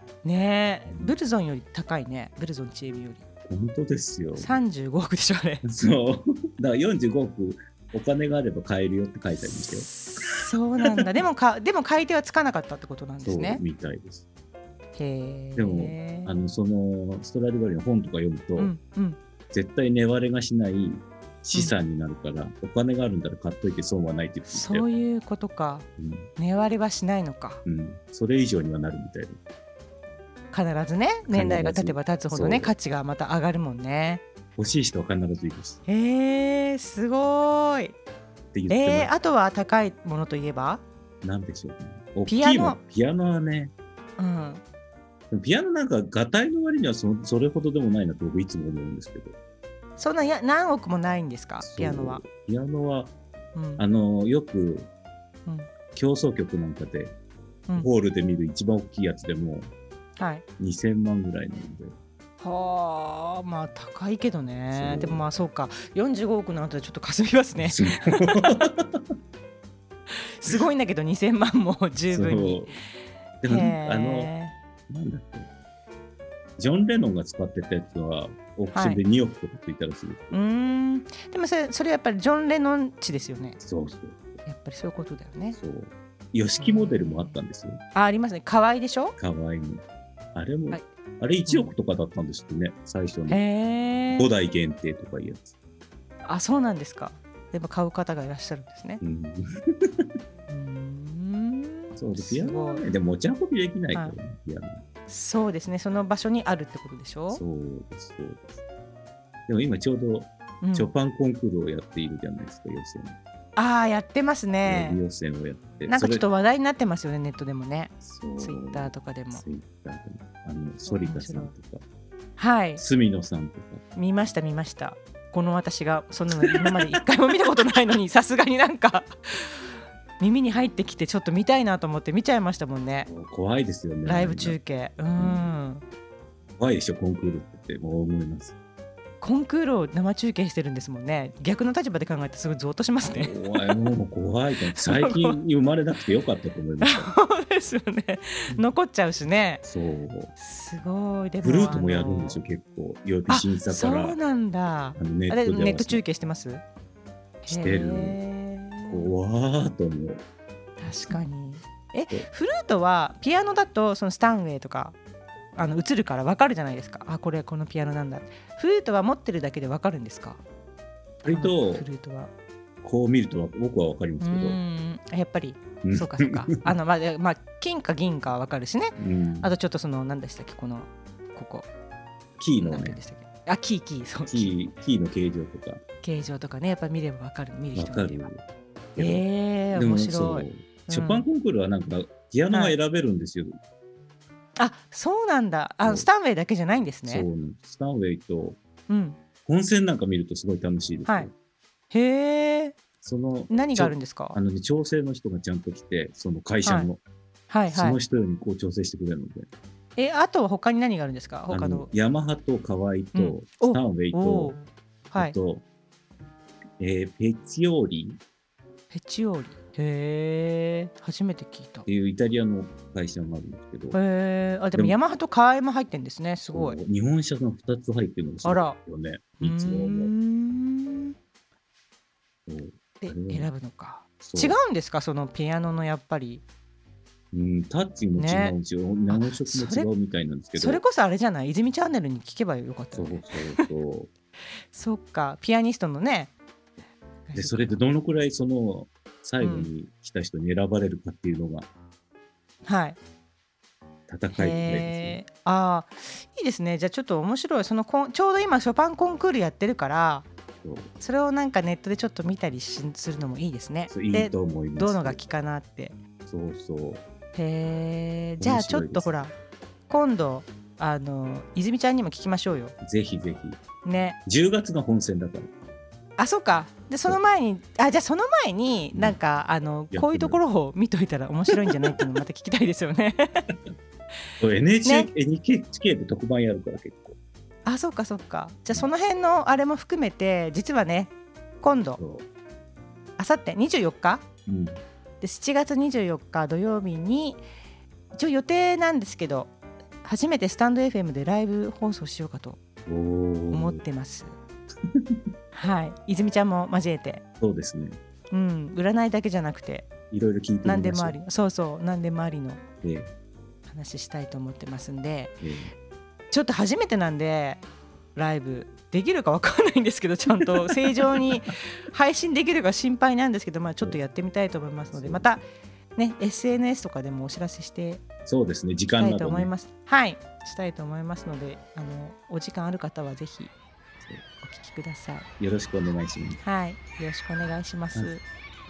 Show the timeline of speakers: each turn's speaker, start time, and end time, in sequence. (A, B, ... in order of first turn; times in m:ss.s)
0:00.2-0:03.2 A
0:00.9-0:01.1 B
0:03.4-0:04.6 B
0:04.4-0:05.6 A
0:05.6-0:10.4 B
0:09.5-0:13.6 A
0:13.2-0:14.2 B
0:15.0-0:16.4 A
0:15.6-0:18.7 B
0:18.6-0:19.2 A
0:19.5-0:24.8 B
0:24.5-0:27.6 A
0:26.0-0:26.3 B
0:27.6-0:29.4 B
0:30.5-0:34.2 A
0:31.3-0:32.7 B
0:34.6-0:35.8 B
0:35.9-0:38.0 A
0:38.5-0:39.1 B
0:38.7-0:40.8 A
0:41.2-0:43.7 B
0:42.3-0:42.8 A
0:44.2-0:44.6 A
0:45.3-0:49.3 B
0:50.0-0:52.2 A
0:51.6-0:53.1 B
0:53.5-0:53.8 A
0:53.8-0:54.9 B
0:55.9-0:57.1 B
0:57.8-0:59.7 B
1:00.2-1:00.4 A
1:00.6-1:02.0 B
1:02.4-1:08.6 A
1:04.7-1:05.2 B
1:07.6-1:09.0 B
1:10.1-1:12.7 A
1:12.1-1:12.8 B
1:13.4-1:14.3 B
1:13.4-1:14.6 A
1:14.9-1:15.5 B
1:16.6-1:20.4 B
1:18.7-1:19.0 A
1:20.3-1:23.6 A
1:23.6-1:24.4 B
1:24.4-1:25.6 A
1:25.5-1:27.8 B
1:26.6-1:27.4 A
1:27.9-1:29.2 A
1:29.2-1:29.8 B
1:30.3-1:33.4 B
1:31.4-1:31.7 A
1:33.3-1:34.3 A
1:34.1-1:35.5 B
1:36.2-1:39.0 A
1:39.0-1:40.1 B
1:40.5-1:42.8 A
1:42.0-1:44.8 B
1:45.1-1:47.4 A
1:47.3-1:48.5 B
1:49.5-1:53.2 B
1:50.6-1:50.9 A
1:53.6-1:55.0 A
1:54.6-1:56.2 B
1:55.9-1:59.4 A
1:58.0-2:01.8 B
2:00.9-2:01.5 A
2:02.4-2:02.8 A
2:02.8-2:03.8 B
2:03.9-2:13.1 A
2:06.4-2:06.7 B
2:13.1-2:14.6 B
2:14.0-2:15.8 A
2:15.1-2:15.5 B
2:16.6-2:18.5 B
2:19.2-2:23.8 A
2:23.1-2:27.1 B
2:24.7-2:25.4 A
2:26.8-2:29.6 A
2:29.6-2:30.3 B
2:30.4-2:32.4 A
2:31.4-2:34.2 B
2:33.3-2:36.6 A
2:35.0-2:36.0 B
2:37.4-2:39.1 A
2:37.5-2:38.2 B
2:38.9-2:40.2 B
2:40.8-2:45.0 A
2:45.5-2:50.4 A
2:51.2-2:52.3 A
2:51.2-2:51.8 B
2:52.8-2:54.6 B
2:54.2-3:01.7 A
2:55.8-2:56.7 B
2:59.0-2:59.5 B
3:02.4-3:03.0 B
3:02.6-3:04.5 A
3:04.3-3:05.8 B
3:06.0-3:08.3 A
3:07.7-3:08.4 B
3:09.0-3:09.2 B
3:09.0-3:11.2 A
3:09.7-3:13.6 B
3:12.5-3:12.8 A
3:14.6-3:17.3 A
3:17.0-3:18.6 B
3:18.9-3:19.2 A
3:19.4-3:21.3 B
3:21.9-3:22.8 A
3:23.0-3:27.0 B
3:23.5-3:24.4 A
3:26.6-3:26.9 A
3:27.5-3:28.0 A
3:27.7-3:29.5 B
3:30.0-3:31.9 A
3:31.5-3:34.6 B
3:33.1-3:35.3 A
3:35.2-3:35.6 B
3:36.8-3:38.2 B
3:38.9-3:41.9 A
3:41.8-3:44.0 B
3:43.9-3:46.8 A
3:46.4-3:50.1 B
3:48.4-3:48.8 A
3:49.4-3:51.1 A
3:52.5-3:53.5 B
3:53.0-3:56.4 A
3:54.2-3:54.6 B
3:57.3-4:00.8 B
3:58.2-3:58.6 A
3:59.1-3:59.9 A
4:00.5-4:03.6 A
4:02.9-4:04.1 B
4:04.7-4:06.3 A
4:07.3-4:07.8 A
4:07.3-4:11.7 B
4:09.4-4:09.7 A
4:12.6-4:13.0 A
4:14.1-4:15.2 B
4:14.3-4:20.3 A
4:20.6-4:20.9 B
4:21.0-4:26.0 A
4:23.9-4:25.2 B
4:26.2-4:27.0 B
4:27.3-4:29.3 A
4:28.4-4:29.1 B
4:29.9-4:32.7 A
4:32.8-4:33.6 B
4:33.8-4:34.2 A
4:34.2-4:35.5 B
4:36.2-4:43.5 A
4:39.9-4:40.4 B
4:41.5-4:41.9 B
4:44.4-4:47.2 B
4:47.6-4:52.0 A
4:52.0-4:52.2 B
4:53.2-4:54.2 A
4:54.4-4:54.8 B
4:55.2-4:57.4 A
4:58.2-4:59.5 A
5:00.0-5:02.6 A
5:02.9-5:03.8 B
5:03.5-5:04.3 A
5:04.9-5:05.2 B
5:05.5-5:07.2 A
5:07.4-5:08.0 B
5:08.3-5:09.9 A
5:10.1-5:11.2 B
5:10.6-5:12.6 A
5:12.8-5:13.1 B
5:13.7-5:15.4 A
5:15.4-5:15.7 B
5:16.3-5:17.6 A
5:18.1-5:25.4 A
5:21.0-5:21.3 B
5:24.9-5:25.4 B
5:26.0-5:28.0 A
5:28.2-5:29.5 B
5:28.9-5:33.5 A
5:34.4-5:35.3 A
5:35.4-5:36.4 B
5:36.4-5:38.2 A